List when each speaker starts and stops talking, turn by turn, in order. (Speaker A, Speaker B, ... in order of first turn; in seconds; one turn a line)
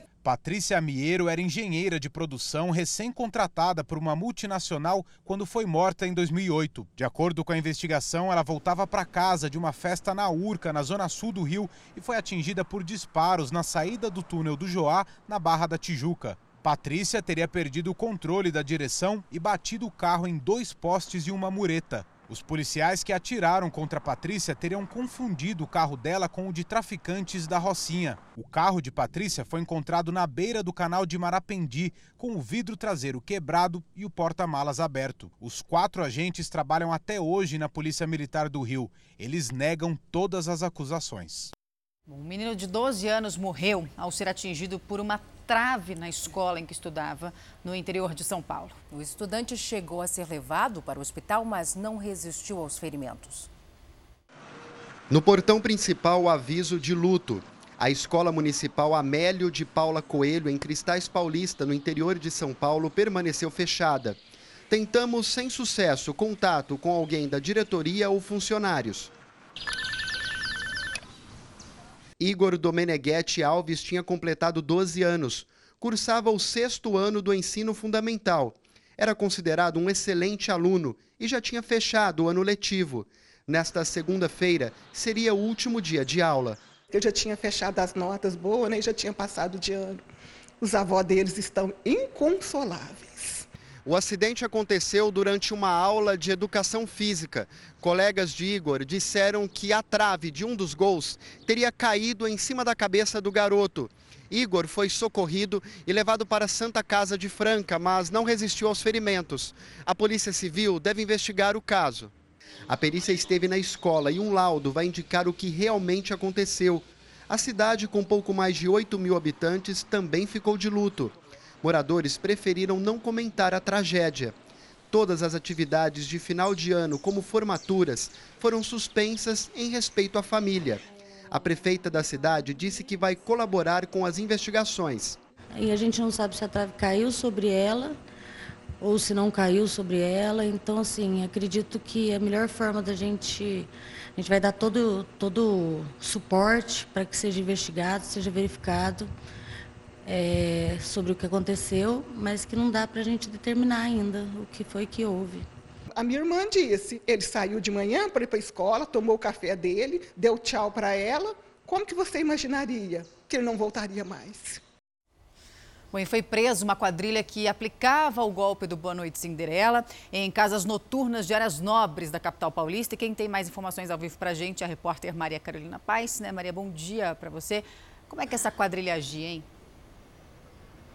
Speaker A: 0.2-41.5
Speaker B: 42.1-48.8
Speaker C: 48.9-53.5
Speaker D: 55.1-69.1
Speaker D: 72.2-86.6
Speaker E: 86.9-90.0
Speaker E: 90.6-93.5
Speaker D: 93.9-112.1
Speaker D: 112.7-124.4
Speaker D: 124.9-135.2
Speaker F: 135.5-138.0
Speaker F: 138.8-149.1
Speaker F: 150.1-155.5
Speaker E: 156.0-164.6
Speaker B: 165.9-179.5